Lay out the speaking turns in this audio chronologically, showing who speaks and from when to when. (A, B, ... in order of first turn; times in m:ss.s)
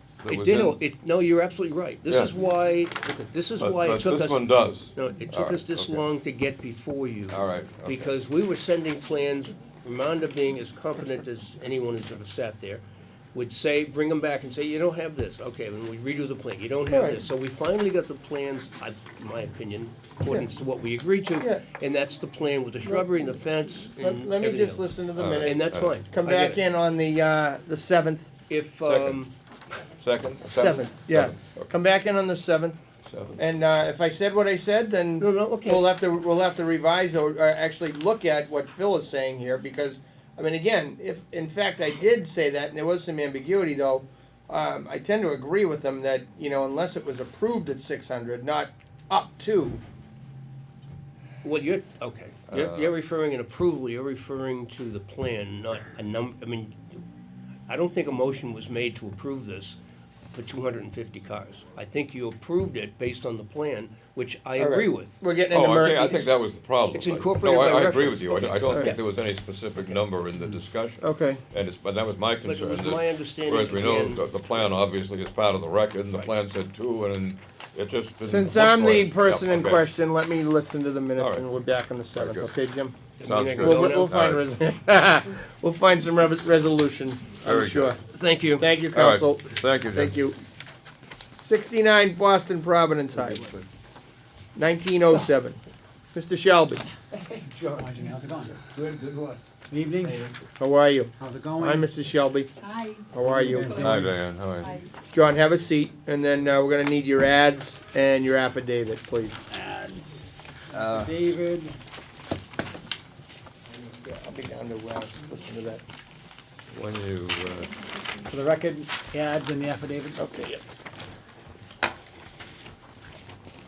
0:00.2-0:00.8 A
0:00.3-0:26.6 B
0:03.6-0:06.0 A
0:07.3-0:08.1 A
0:16.9-0:17.2 C
0:22.8-0:23.2 C
0:24.0-0:28.3 C
0:25.1-0:26.0 A
0:28.5-0:29.3 B
0:28.8-0:29.2 A
0:30.0-0:31.7 A
0:30.4-0:32.8 C
0:33.0-0:33.4 A
0:33.4-0:49.8 C
0:35.2-0:35.9 B
0:51.4-0:56.8 B
0:52.5-0:53.0 A
0:57.7-0:59.8 B
1:00.3-1:05.2 B
1:04.6-1:06.3 C
1:05.5-1:19.8 A
1:06.9-1:09.0 B
1:11.0-1:11.4 C
1:12.4-1:14.2 B
1:18.2-1:23.0 C
1:21.2-1:21.5 A
1:22.2-1:22.5 A
1:23.2-1:24.2 B
1:23.2-1:24.5 A
1:23.6-1:28.0 C
1:27.4-1:28.0 A
1:28.1-1:28.7 B
1:28.6-1:30.4 C
1:28.9-1:30.1 A
1:31.4-1:33.5 C
1:34.5-1:35.6 C
1:36.1-1:36.8 C
1:37.3-1:39.0 D
1:39.7-1:40.3 D
1:40.6-1:42.5 C
1:41.2-1:41.9 D
1:42.6-1:44.1 D
1:43.1-1:44.0 C
1:43.7-1:44.8 A
1:45.0-1:49.4 C
1:49.5-1:51.8 D
1:50.7-1:51.2 A
1:54.0-1:55.8 C
1:56.7-1:57.7 A
1:58.3-2:00.2 D
2:00.2-2:00.6 C